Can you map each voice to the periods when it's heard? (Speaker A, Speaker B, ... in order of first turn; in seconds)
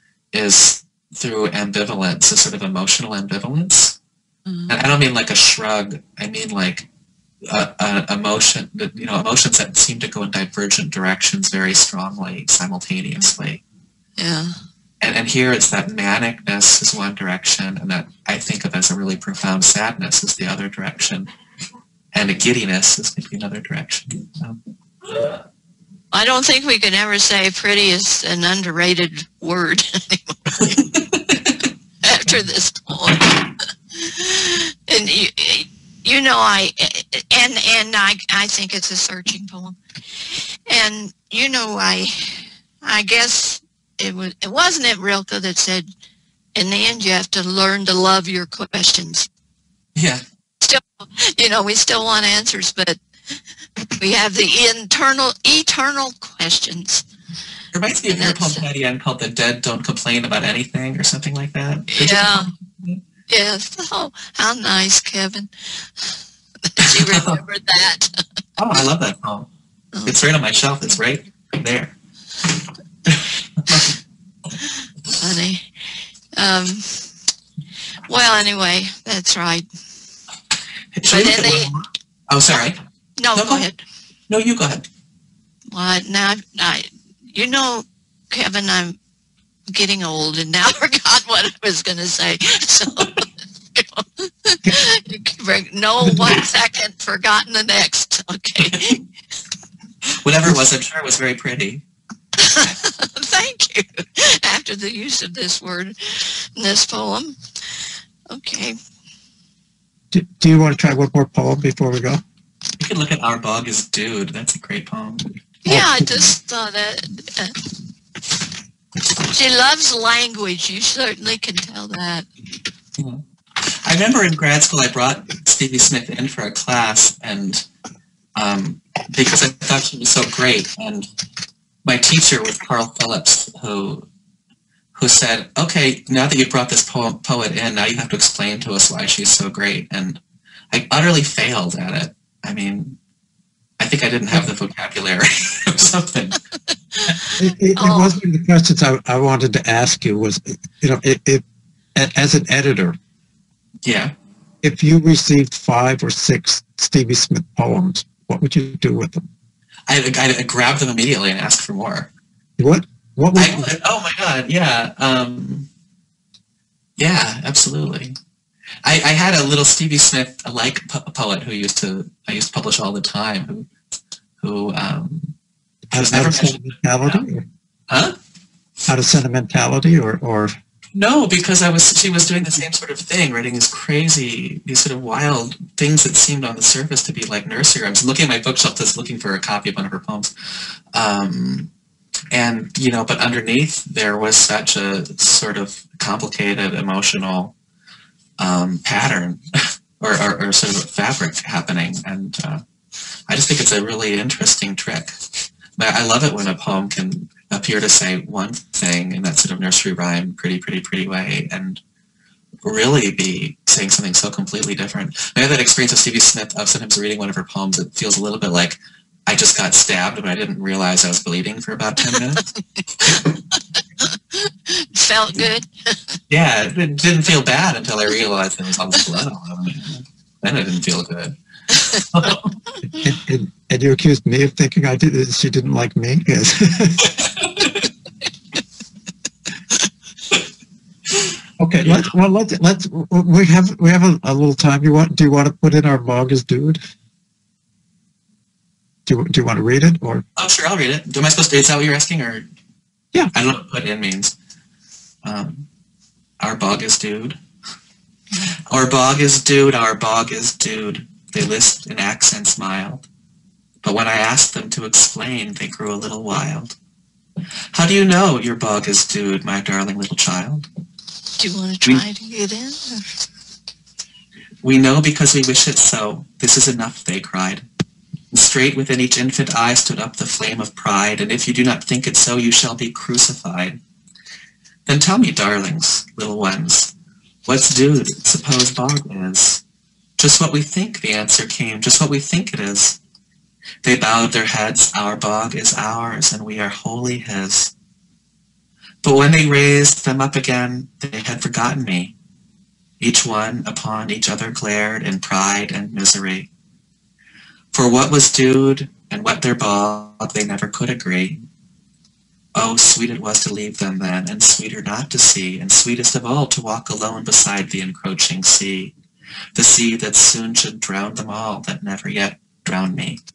Speaker A: 0.3-4.0, 4.7-6.9, 7.5-13.6, 15.0-21.3, 22.1-24.6, 25.1-25.4, 30.6-31.6, 50.0-50.2, 57.7-63.0, 66.8-67.4, 68.6-69.5, 70.1-72.0, 73.1-74.0, 81.0-82.8, 83.3-83.7, 84.3-84.8, 100.2-101.8, 112.8-115.3, 123.0-127.7, 128.4-131.1, 131.8-134.1, 134.9-140.2, 140.7-143.0, 143.8-146.4, 153.8-154.1, 159.9-162.1, 163.4-165.7, 167.0-168.2, 168.8-173.7, 174.4-175.3, 175.9-177.2, 177.9-178.2, 180.9-190.3, 190.9-191.7, 192.3-197.6, 198.4-199.4, 200.0-202.6, 203.3-205.2, 205.8-211.8, 212.6-222.5, 226.3-231.4, 231.9-232.6, 237.2-237.8, 241.8-242.1, 250.4-252.5, 253.3-254.3, 255.2-255.7, 256.4-257.4, 258.7-263.1, 263.8-266.8, 267.7-270.7, 274.6-277.6, 278.3-283.8, 284.9-286.9, 287.5-289.6, 290.2-293.0, 293.8-297.7, 299.0-302.1, 303.0-306.5, 307.7-311.4, 312.6-318.9, 319.6-323.2
Speaker B: 4.5-4.8, 14.2-14.6, 26.1-30.9, 32.0-39.8, 40.3-45.9, 46.5-49.3, 50.6-53.0, 54.0-57.0, 58.1-58.6, 61.9-62.5, 63.3-68.1, 69.9-70.2, 74.7-75.7, 76.4-77.1, 78.1-79.7, 81.1-81.7, 83.2-83.8, 85.7-89.0, 89.7-93.2, 93.8-99.0, 102.4-107.4, 108.3-108.8, 115.7-117.5, 119.3-122.3, 147.8-148.2, 222.1-223.2, 223.8-226.2, 271.4-273.1
Speaker C: 110.1-112.2, 115.7-116.1, 147.3-151.4, 151.9-153.0, 154.6-159.3, 162.6-163.8, 175.9-177.4, 178.9-180.5, 233.0-237.1, 241.6-246.8, 249.1-250.2